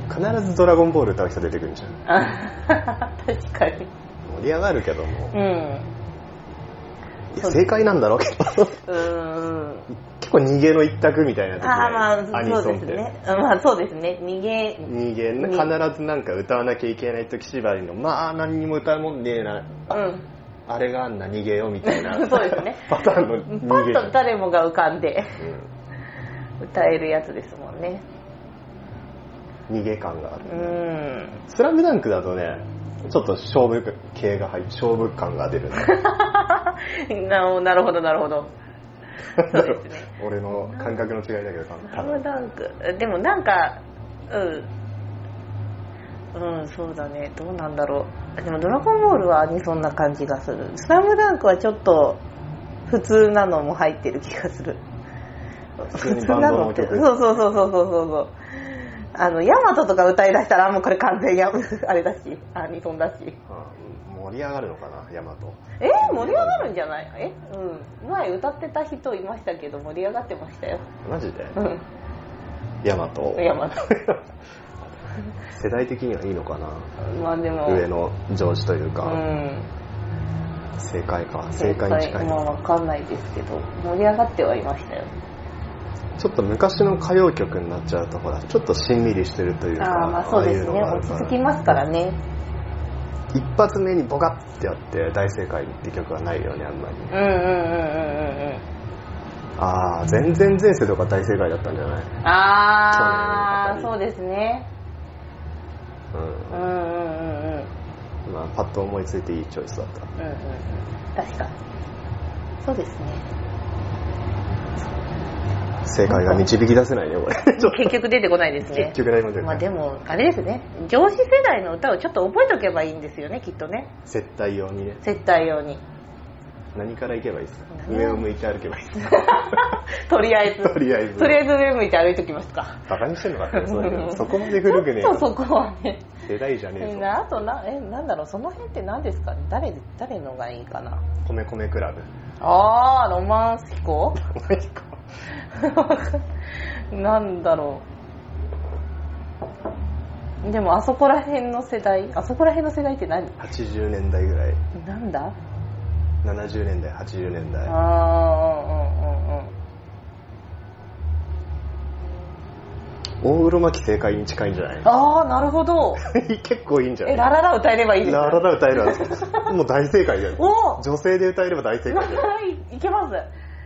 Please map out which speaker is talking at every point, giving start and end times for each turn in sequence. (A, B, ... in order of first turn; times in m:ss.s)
0:00.1-0:02.0 A
0:02.1-0:03.9 B
0:04.2-0:05.4 A
0:05.3-0:05.9 B
0:07.3-0:08.9 A
0:07.4-0:07.9 B
0:08.8-0:09.9 B
0:10.0-0:13.1 A
0:11.6-0:15.7 B
0:14.8-0:20.0 A
0:19.9-0:20.3 B
0:20.7-0:24.2 A
0:21.8-0:25.4 B
0:25.4-0:25.7 A
0:26.6-0:28.0 B
0:29.7-0:30.8 A
0:30.4-0:31.4 B
0:31.5-0:36.0 A
0:35.8-0:38.5 B
0:39.4-0:41.0 B
0:39.4-0:42.2 A
0:41.9-0:44.7 B
0:46.3-0:52.2 B
0:52.9-0:54.8 B
0:55.8-1:03.4 B
0:55.8-0:57.2 A
1:03.5-1:06.7 A
1:05.8-1:10.9 B
1:11.0-1:11.6 A
1:11.6-1:11.8 B
1:12.8-1:14.2 A
1:13.4-1:13.9 B
1:15.5-1:16.9 A
1:17.0-1:17.9 B
1:17.6-1:19.2 A
1:19.0-1:19.7 B
1:20.8-1:22.5 A
1:21.5-1:25.1 B
1:26.2-1:31.8 A
1:29.8-1:32.2 B
1:33.3-1:37.2 A
1:37.1-1:38.6 B
1:39.6-1:42.1 A
1:42.2-1:44.7 B
1:42.9-1:44.0 A
1:46.1-1:46.6 A
1:46.5-1:47.7 B
1:48.3-1:50.1 A
1:50.2-1:51.5 B
1:52.6-1:53.3 B
1:55.8-1:58.0 A
1:56.1-1:56.5 B
1:57.6-2:03.9 B
1:58.6-1:59.8 A
2:04.1-2:05.0 A
2:05.0-2:05.8 B
2:06.7-2:09.6 A
2:07.7-2:08.3 B
2:09.0-2:12.9 B
2:10.6-2:11.4 A
2:12.9-2:15.3 A
2:13.4-2:16.1 B
2:16.2-2:17.1 A
2:16.8-2:21.0 B
2:21.2-2:22.1 A
2:22.4-2:24.3 B
2:24.3-2:25.0 A
2:25.5-2:26.2 B
2:26.9-2:27.8 B
2:30.4-2:33.4 B
2:33.4-2:34.6 A
2:34.7-2:35.4 B
2:36.2-2:37.8 A
2:37.7-2:39.5 B
2:43.2-2:44.9 A
2:44.8-2:46.0 B
2:46.0-2:47.3 A
2:47.0-2:49.5 B
2:48.0-2:52.3 A
2:50.4-2:50.8 B
2:51.9-2:53.3 B